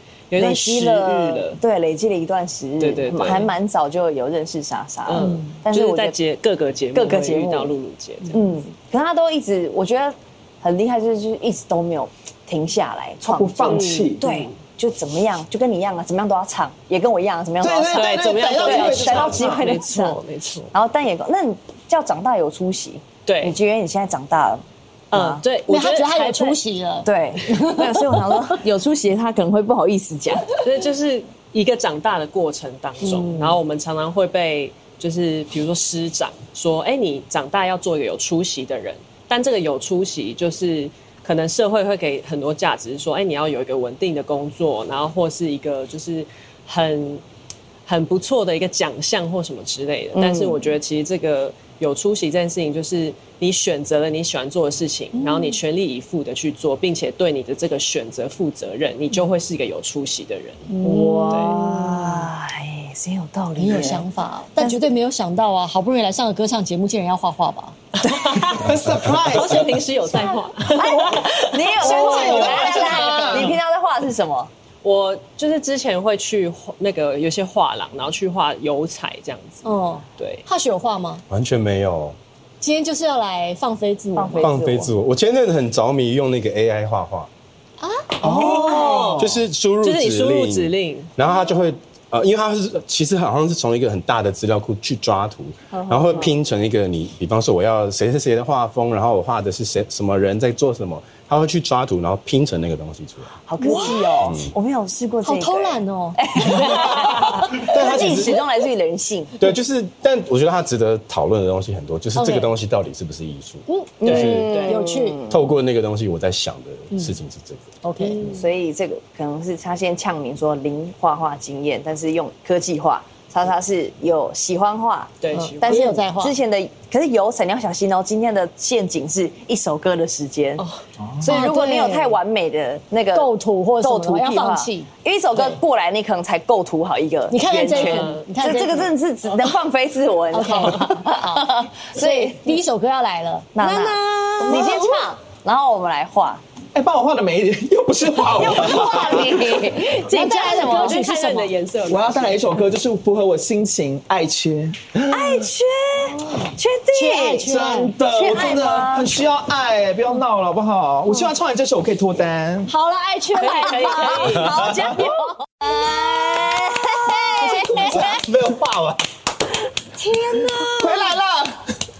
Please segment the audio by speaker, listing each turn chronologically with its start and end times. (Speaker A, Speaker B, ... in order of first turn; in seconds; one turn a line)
Speaker A: 0.3-1.6
Speaker B: 0.4-6.2
Speaker A: 2.8-3.5
Speaker A: 5.0-8.4
Speaker C: 5.2-5.5
Speaker B: 6.9-7.8
Speaker B: 8.3-20.2
Speaker D: 13.2-14.3
Speaker A: 13.7-14.5
Speaker D: 17.6-19.7
Speaker A: 17.9-20.7
Speaker B: 20.7-25.4
Speaker A: 23.2-23.6
Speaker A: 25.1-26.6
Speaker C: 25.7-28.6
Speaker B: 27.0-30.5
Speaker A: 30.6-47.2
Speaker C: 33.0-33.6
Speaker A: 47.9-61.6
Speaker B: 50.1-50.7
Speaker C: 55.1-55.6
Speaker C: 60.7-62.2
Speaker B: 60.8-64.0
Speaker C: 63.6-67.8
Speaker A: 68.0-68.6
Speaker D: 68.0-69.8
Speaker A: 69.2-73.5
Speaker C: 70.1-71.0
Speaker B: 70.7-74.5
Speaker C: 71.8-73.5
Speaker D: 71.8-73.5
Speaker A: 74.8-79.6
Speaker C: 79.6-81.2
Speaker A: 80.2-80.4
Speaker E: 81.3-82.2
Speaker C: 82.6-84.5
Speaker B: 84.1-84.9
Speaker E: 84.4-87.3
Speaker C: 87.8-89.1
Speaker B: 88.2-89.3
Speaker A: 88.2-91.1
Speaker E: 89.2-103.3
Speaker B: 95.7-96.3
Speaker B: 103.5-109.4
Speaker C: 103.6-104.2
Speaker E: 104.2-104.5
Speaker C: 105.2-108.4
Speaker E: 106.5-108.4
Speaker E: 109.4-114.6
Speaker C: 112.1-112.5
Speaker C: 113.7-115.2
Speaker B: 114.0-115.4
Speaker A: 114.0-114.8
Speaker E: 115.3-117.7
Speaker C: 117.8-118.4
Speaker B: 118.2-130.6
Speaker A: 125.2-126.0
Speaker C: 125.3-126.4
Speaker B: 131.2-142.6
Speaker C: 131.2-132.2
Speaker C: 133.1-135.6
Speaker C: 137.3-138.9
Speaker A: 137.7-138.2
Speaker C: 140.3-145.2
Speaker B: 143.6-146.4
Speaker D: 146.7-149.5
Speaker B: 148.3-151.0
Speaker C: 149.9-151.5
Speaker A: 150.2-152.6
Speaker D: 151.9-155.3
Speaker B: 155.1-159.1
Speaker C: 156.1-157.9
Speaker D: 157.4-162.7
Speaker C: 162.7-164.4
Speaker A: 163.4-164.6
Speaker B: 163.4-168.2
Speaker D: 164.5-164.9
Speaker C: 167.2-168.2
Speaker E: 168.0-169.0
Speaker B: 169.9-171.1
Speaker D: 170.5-171.6